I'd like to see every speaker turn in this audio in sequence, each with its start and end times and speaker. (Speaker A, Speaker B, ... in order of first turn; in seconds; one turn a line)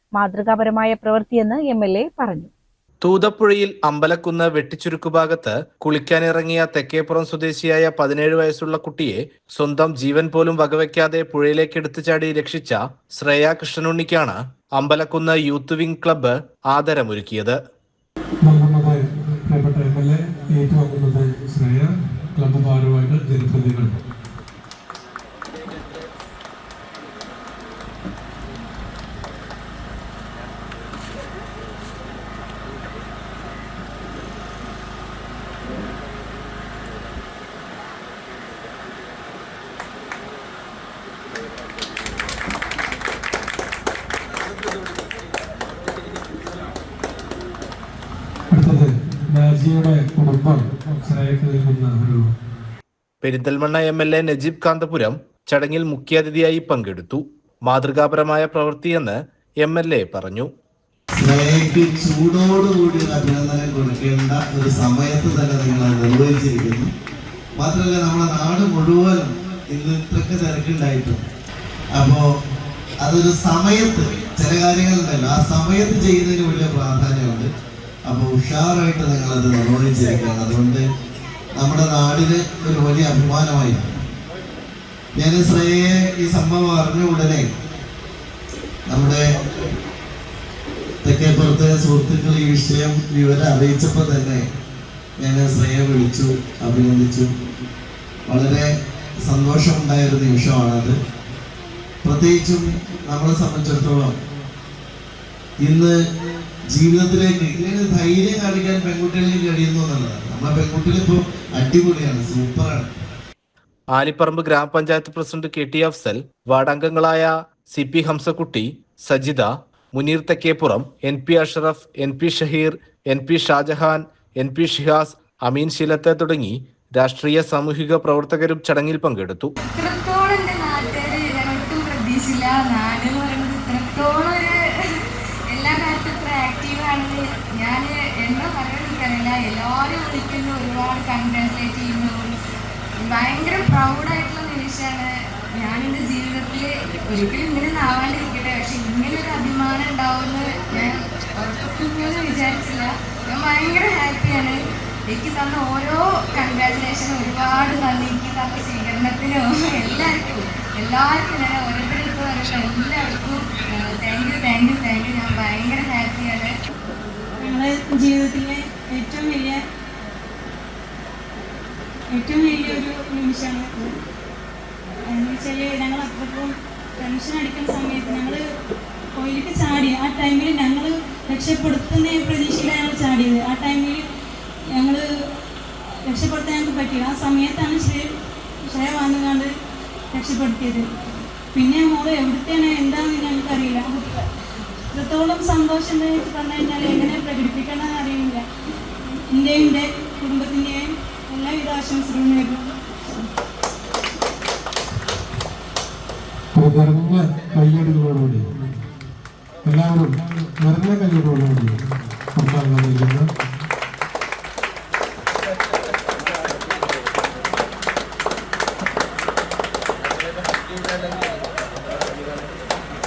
Speaker A: 0.1-2.5
Speaker B: 3.0-17.6
Speaker C: 18.4-24.0
Speaker C: 48.5-52.3
Speaker B: 53.2-60.5
Speaker D: 61.2-66.9
Speaker D: 67.6-71.2
Speaker D: 71.9-72.2
Speaker D: 73.0-77.5
Speaker D: 78.1-80.8
Speaker D: 81.6-83.8
Speaker D: 85.2-87.4
Speaker D: 88.9-89.2
Speaker D: 91.0-94.4
Speaker D: 95.2-97.3
Speaker D: 98.3-98.7
Speaker D: 99.2-101.0
Speaker D: 102.0-104.1
Speaker D: 105.6-105.9
Speaker D: 106.7-112.8
Speaker B: 113.9-129.5
Speaker E: 129.6-142.3
Speaker E: 143.0-166.6
Speaker F: 167.4-169.6
Speaker F: 172.1-174.0
Speaker F: 175.1-178.4
Speaker F: 179.2-184.0
Speaker F: 184.8-185.0
Speaker F: 186.1-188.1
Speaker F: 188.7-189.5
Speaker F: 190.1-190.8
Speaker F: 191.5-194.3
Speaker F: 194.9-198.4
Speaker F: 199.3-202.7
Speaker C: 206.5-208.5
Speaker C: 209.6-211.8
Speaker C: 212.3-213.3